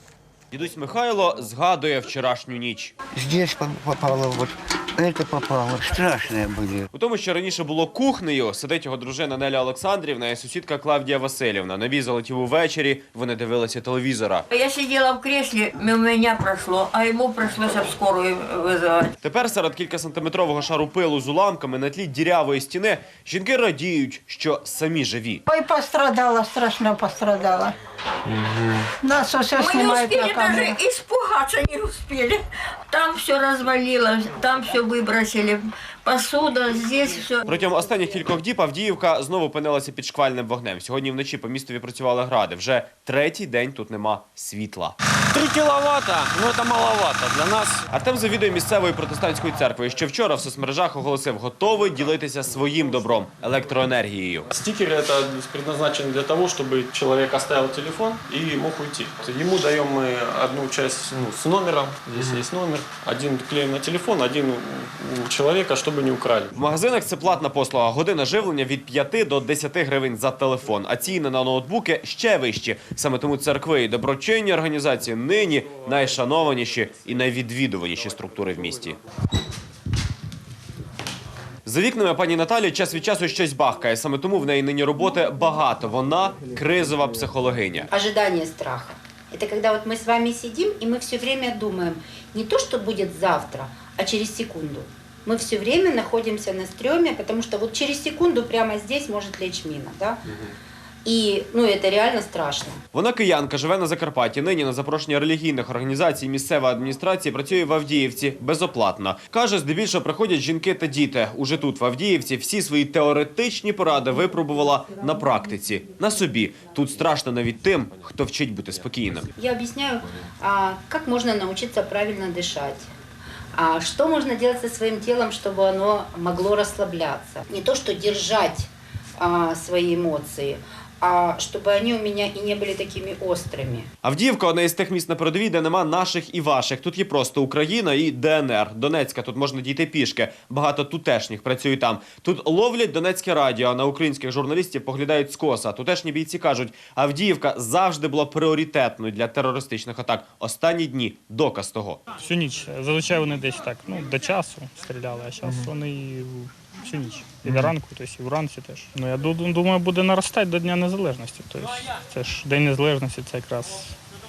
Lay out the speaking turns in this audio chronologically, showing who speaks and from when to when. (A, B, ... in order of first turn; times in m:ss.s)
0:00.5-0:02.9 A
0:03.2-0:06.8 B
0:06.9-0:14.4 A
0:14.5-0:19.1 C
0:19.2-0:25.4 A
0:25.5-0:27.8 D
0:29.0-0:30.8 D
0:29.5-0:37.4 C
0:37.4-0:44.9 A
0:45.3-0:47.8 E
0:47.9-0:54.5 A
0:54.5-1:06.5 E
1:06.5-1:19.0 A
1:21.6-1:27.9 A
1:27.9-1:40.2 F
1:41.0-1:42.8 F
1:42.9-1:59.3 A
1:59.4-2:02.9 F
2:03.5-2:13.9 F
2:14.0-2:32.0 A
2:32.2-2:43.9 G
2:37.4-2:37.7 E